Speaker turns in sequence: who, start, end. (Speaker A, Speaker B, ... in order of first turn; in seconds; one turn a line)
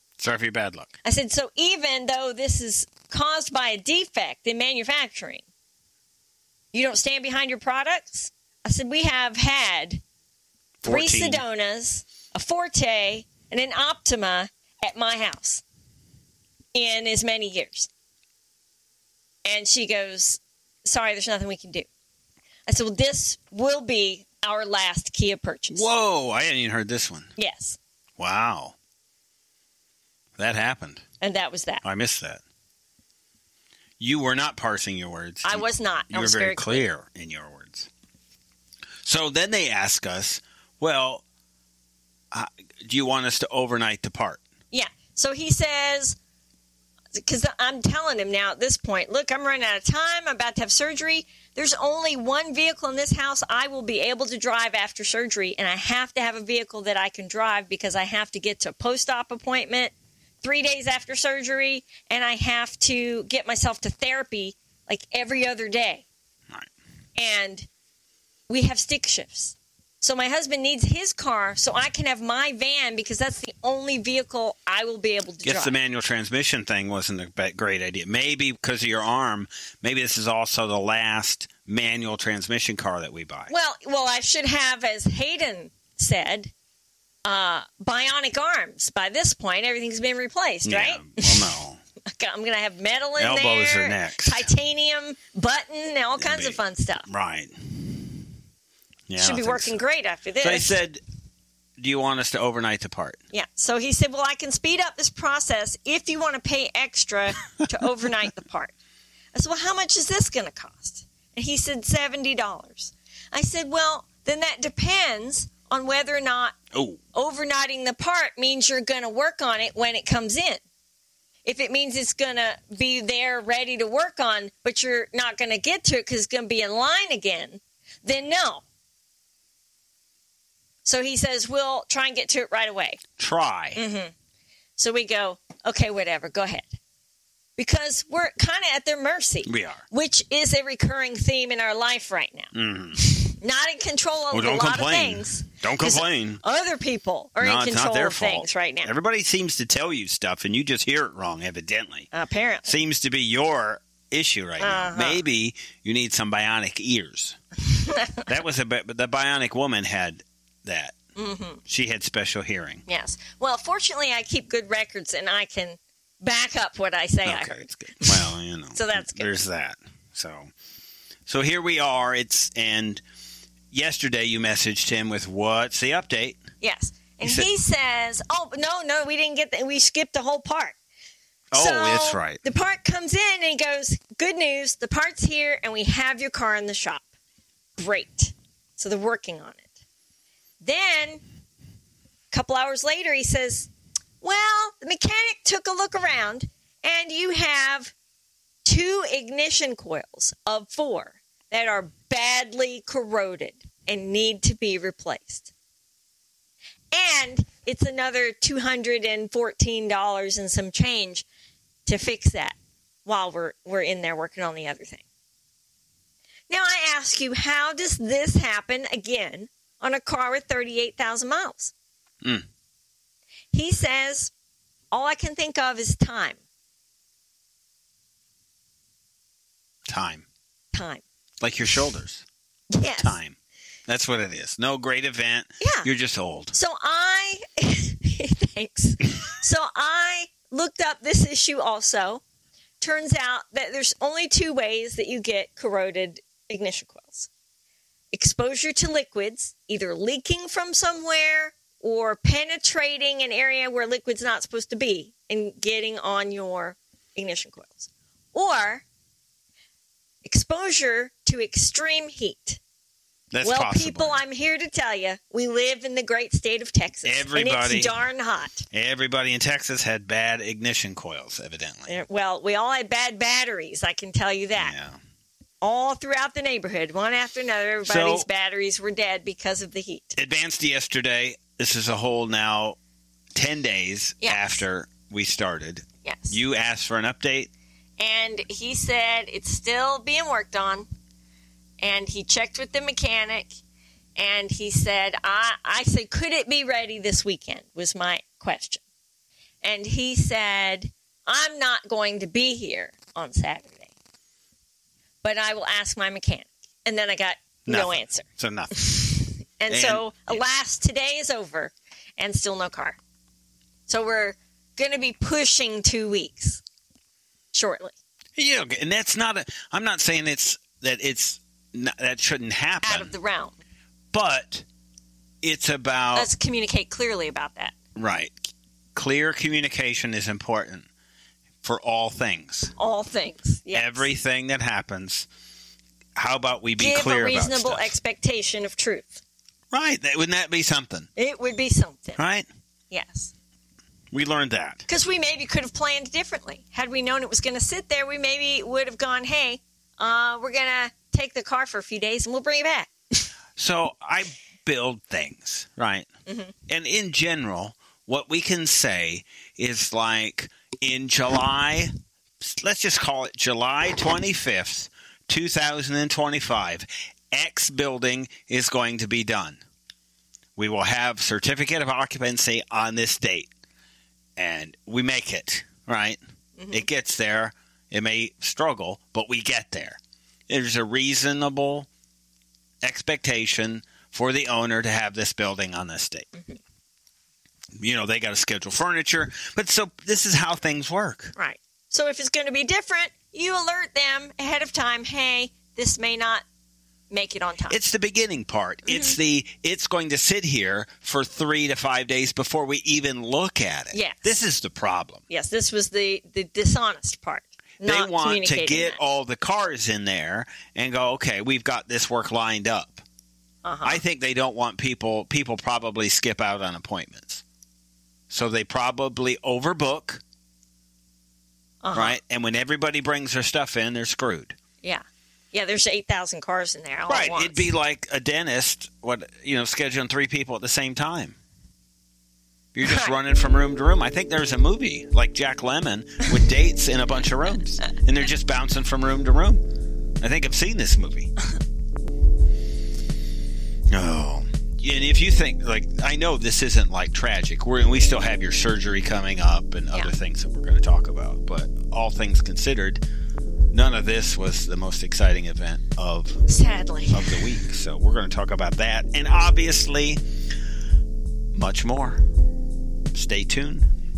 Speaker A: 0.2-0.9
Speaker B: 1.0-5.4
Speaker B: 6.7-10.0
Speaker A: 10.8-11.4
Speaker B: 10.8-15.6
Speaker B: 16.7-17.9
Speaker B: 19.4-21.9
Speaker B: 22.7-25.9
Speaker A: 25.7-27.3
Speaker B: 27.4-27.8
Speaker A: 28.2-28.7
Speaker A: 30.4-31.0
Speaker B: 31.2-31.8
Speaker A: 31.8-32.4
Speaker A: 34.0-37.9
Speaker B: 35.4-36.9
Speaker A: 39.0-41.2
Speaker A: 42.3-44.4
Speaker B: 44.7-46.2
Speaker B: 47.1-66.1
Speaker B: 67.2-67.7
Speaker B: 68.5-75.7
Speaker A: 75.4-83.5
Speaker B: 83.5-86.5
Speaker B: 87.2-97.1
Speaker A: 90.6-91.8
Speaker A: 93.2-94.5
Speaker A: 96.2-98.2
Speaker A: 99.1-99.8
Speaker B: 99.2-100.8
Speaker A: 100.4-101.0
Speaker A: 101.8-103.2
Speaker B: 103.3-108.7
Speaker B: 109.3-116.6
Speaker A: 116.7-117.0
Speaker B: 117.1-120.6
Speaker B: 121.4-128.6
Speaker B: 130.8-133.0
Speaker A: 133.2-133.8
Speaker B: 133.8-134.1
Speaker B: 134.8-136.7
Speaker B: 137.6-148.9
Speaker A: 139.4-139.8
Speaker A: 142.5-143.0
Speaker A: 144.3-146.4
Speaker A: 147.4-152.1
Speaker B: 152.1-152.7
Speaker A: 152.7-157.4
Speaker B: 154.6-155.2
Speaker B: 157.7-158.2
Speaker A: 158.2-160.9
Speaker B: 161.2-161.6
Speaker A: 161.7-162.8
Speaker B: 162.9-169.3
Speaker A: 167.2-170.5
Speaker A: 171.3-173.0
Speaker A: 173.7-176.4
Speaker B: 176.6-180.8
Speaker A: 177.2-177.5
Speaker A: 181.5-182.4
Speaker B: 181.6-187.1
Speaker B: 187.8-189.7
Speaker B: 190.6-191.2
Speaker B: 192.3-193.7
Speaker B: 194.2-197.9
Speaker B: 198.6-205.5
Speaker B: 206.9-211.2
Speaker B: 211.8-215.0
Speaker B: 216.5-221.7
Speaker B: 223.5-224.3
Speaker B: 224.9-226.4
Speaker A: 229.9-230.2
Speaker B: 230.7-231.0
Speaker A: 231.4-232.2
Speaker B: 232.7-233.2
Speaker A: 233.0-233.3
Speaker A: 233.9-236.6
Speaker B: 235.6-235.9
Speaker B: 236.5-242.2
Speaker B: 242.8-247.3
Speaker B: 248.1-258.8
Speaker B: 260.2-262.6
Speaker A: 263.3-264.2
Speaker B: 263.4-268.6
Speaker A: 267.0-267.9
Speaker A: 268.7-272.0
Speaker B: 271.9-274.7
Speaker A: 274.6-275.0
Speaker B: 275.6-280.2
Speaker A: 277.8-278.3
Speaker A: 280.2-282.8
Speaker A: 283.3-287.5
Speaker B: 284.2-284.6
Speaker B: 286.0-286.4
Speaker B: 288.0-290.9
Speaker B: 291.8-293.6
Speaker B: 294.2-298.8
Speaker B: 299.6-303.9
Speaker B: 305.2-313.0
Speaker A: 307.7-308.9
Speaker A: 309.7-310.4
Speaker B: 313.9-316.6
Speaker B: 317.5-317.9
Speaker A: 318.4-323.1
Speaker B: 322.8-323.6
Speaker A: 324.1-324.6
Speaker A: 325.4-326.3
Speaker B: 326.1-327.7
Speaker A: 327.9-328.3
Speaker A: 328.9-330.9
Speaker A: 331.6-332.7
Speaker B: 332.8-334.1
Speaker A: 333.7-335.3
Speaker A: 336.2-337.9
Speaker B: 336.8-339.2
Speaker A: 339.7-341.1
Speaker B: 341.2-342.2
Speaker A: 342.2-342.5
Speaker B: 342.9-343.3
Speaker A: 344.1-344.8
Speaker B: 344.9-353.2
Speaker A: 353.6-356.1
Speaker B: 356.3-356.5
Speaker A: 356.7-369.6
Speaker A: 370.6-373.5
Speaker A: 374.4-376.2
Speaker B: 376.6-376.9
Speaker A: 376.7-381.9
Speaker A: 382.8-386.3
Speaker A: 387.8-391.4
Speaker B: 391.4-396.4
Speaker B: 397.1-397.8
Speaker A: 397.7-405.2
Speaker B: 398.9-399.2
Speaker B: 403.9-404.4
Speaker B: 405.3-409.0
Speaker A: 407.8-413.0
Speaker B: 413.6-414.0
Speaker A: 413.8-417.4
Speaker A: 418.3-420.2
Speaker B: 421.8-422.2
Speaker A: 421.9-424.6
Speaker B: 424.8-427.7
Speaker A: 427.1-431.4
Speaker A: 432.7-439.6
Speaker B: 432.8-433.1
Speaker A: 440.2-441.3
Speaker A: 443.9-453.0
Speaker A: 453.7-456.4
Speaker B: 456.5-457.5
Speaker A: 457.1-460.2
Speaker A: 461.5-462.2
Speaker A: 463.1-463.9